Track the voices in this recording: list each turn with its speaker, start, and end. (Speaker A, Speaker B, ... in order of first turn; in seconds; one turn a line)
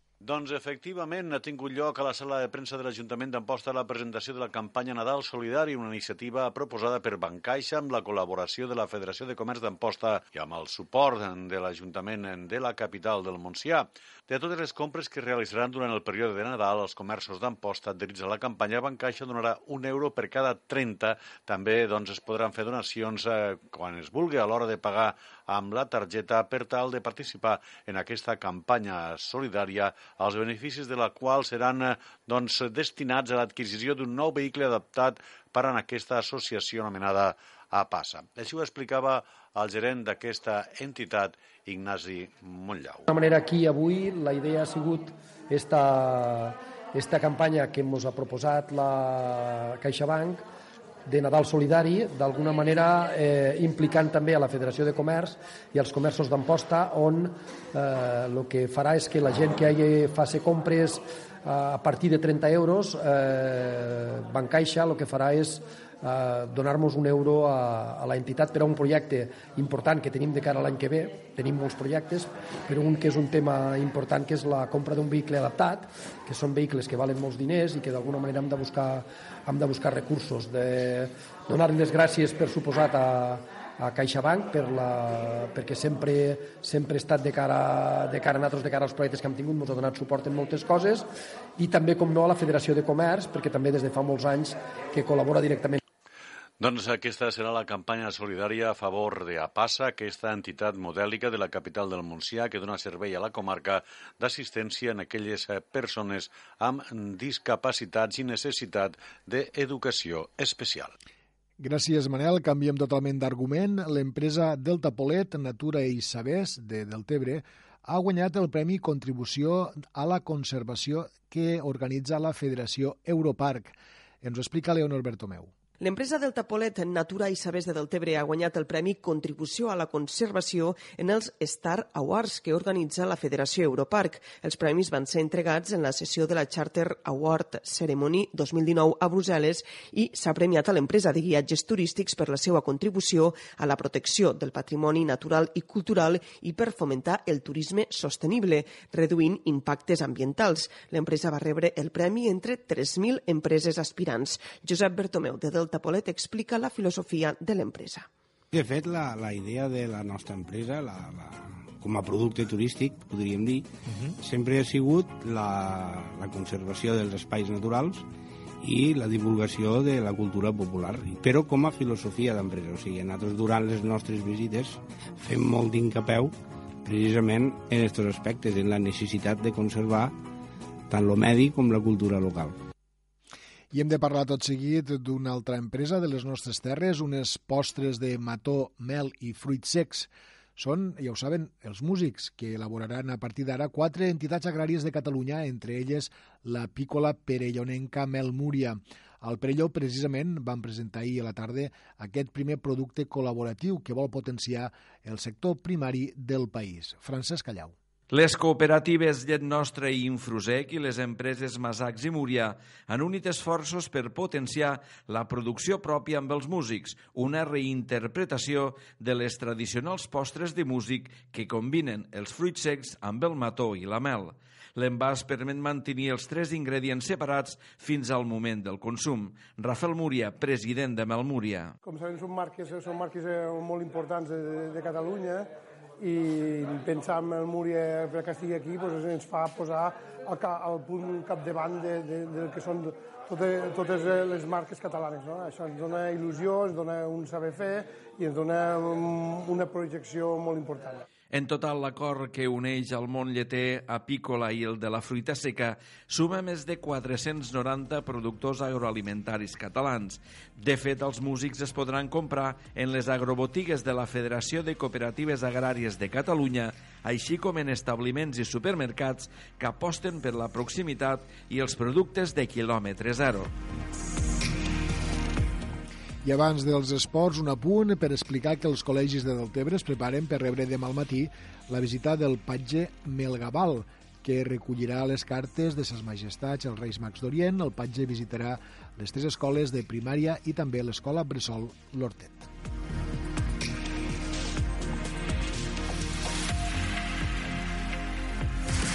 Speaker A: 0.2-43.1
Speaker B: 43.1-50.4
Speaker B: 51.1-95.8
Speaker A: 96.6-110.9
Speaker C: 111.6-125.5
Speaker D: 125.8-158.1
Speaker E: 158.5-163.7
Speaker E: 164.2-168.1
Speaker E: 168.6-180.2
Speaker E: 180.9-182.6
Speaker C: 183.7-207.7
Speaker F: 208.1-231.7
Speaker G: 231.8-251.0
Speaker F: 251.3-273.5
Speaker C: 276.2-292.5